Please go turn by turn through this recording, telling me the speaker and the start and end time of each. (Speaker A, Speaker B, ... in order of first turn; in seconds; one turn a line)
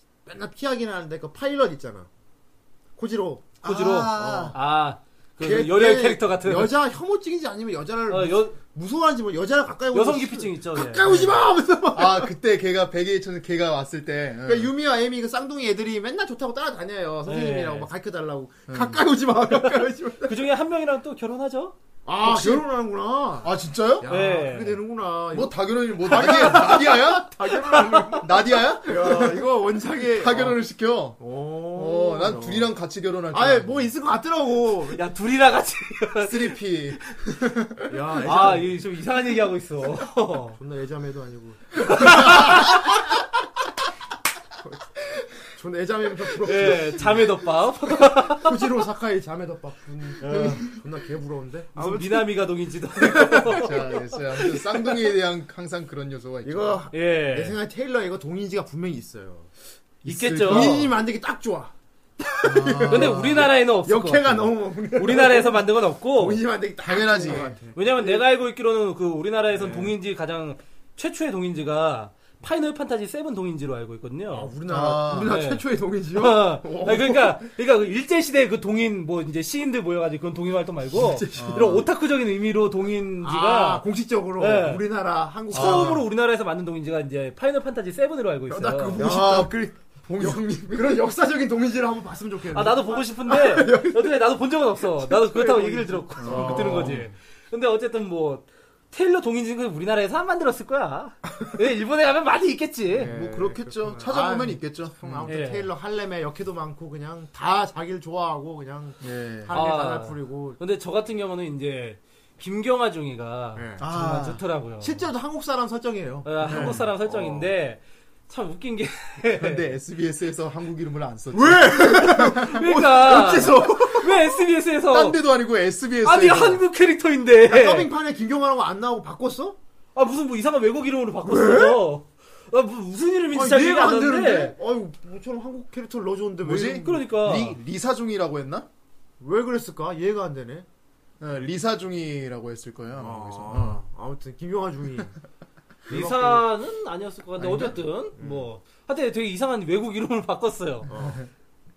Speaker A: 0.2-2.1
Speaker A: 3.0-3.5
Speaker B: 3.6-4.5
Speaker C: 3.6-6.7
Speaker A: 4.2-4.5
Speaker A: 5.4-12.3
Speaker C: 8.1-8.6
Speaker C: 9.9-11.0
Speaker B: 11.0-11.4
Speaker B: 11.9-14.7
Speaker A: 14.4-20.4
Speaker C: 17.2-17.9
Speaker B: 18.7-19.0
Speaker C: 20.2-21.7
Speaker A: 22.1-28.3
Speaker B: 22.2-22.6
Speaker B: 23.4-24.1
Speaker C: 24.1-24.8
Speaker B: 25.3-27.3
Speaker C: 26.2-26.8
Speaker C: 27.7-28.2
Speaker B: 28.2-29.5
Speaker A: 28.8-30.6
Speaker B: 30.0-31.2
Speaker A: 31.2-32.7
Speaker B: 31.7-33.9
Speaker A: 33.3-35.0
Speaker C: 34.9-36.5
Speaker B: 36.2-38.0
Speaker A: 37.9-38.8
Speaker C: 38.2-40.5
Speaker A: 40.5-42.4
Speaker C: 41.9-42.8
Speaker A: 45.4-47.3
Speaker C: 46.4-48.5
Speaker A: 48.3-52.3
Speaker C: 50.2-50.7
Speaker B: 50.3-50.6
Speaker C: 51.7-54.9
Speaker A: 53.0-53.6
Speaker B: 53.5-56.8
Speaker A: 56.4-59.5
Speaker C: 56.9-57.5
Speaker B: 60.0-60.9
Speaker C: 60.0-60.8
Speaker A: 60.4-65.6
Speaker B: 62.4-63.5
Speaker C: 62.9-66.4
Speaker A: 66.1-68.2
Speaker B: 66.8-67.5
Speaker C: 67.7-74.5
Speaker A: 69.5-69.9
Speaker A: 74.3-77.4
Speaker B: 74.7-75.4
Speaker C: 75.2-83.8
Speaker A: 80.9-81.8
Speaker B: 81.3-81.8
Speaker A: 83.2-86.0
Speaker C: 84.4-84.8
Speaker B: 85.5-86.0
Speaker C: 85.5-89.0
Speaker A: 88.5-94.1
Speaker B: 88.9-91.0
Speaker C: 92.5-103.1
Speaker A: 94.9-97.1
Speaker B: 96.2-97.1
Speaker B: 102.9-105.3
Speaker A: 102.9-110.6
Speaker C: 105.3-105.7
Speaker B: 109.0-109.5
Speaker C: 109.5-115.0
Speaker A: 113.5-113.8
Speaker B: 113.8-114.4
Speaker A: 114.8-117.5
Speaker C: 116.2-119.7
Speaker B: 116.4-116.8
Speaker B: 119.3-122.6
Speaker A: 121.3-124.2
Speaker C: 122.3-125.2
Speaker B: 124.9-126.6
Speaker C: 126.0-127.9
Speaker A: 127.5-129.6
Speaker C: 129.9-134.5
Speaker A: 131.2-131.8
Speaker A: 133.3-137.0
Speaker B: 136.4-138.7
Speaker C: 136.8-137.6
Speaker A: 139.2-140.7
Speaker B: 141.2-143.8
Speaker A: 142.9-145.2
Speaker A: 145.9-146.4
Speaker C: 145.9-150.9
Speaker B: 147.4-147.7
Speaker A: 147.5-148.5
Speaker A: 150.9-151.2
Speaker B: 150.9-151.3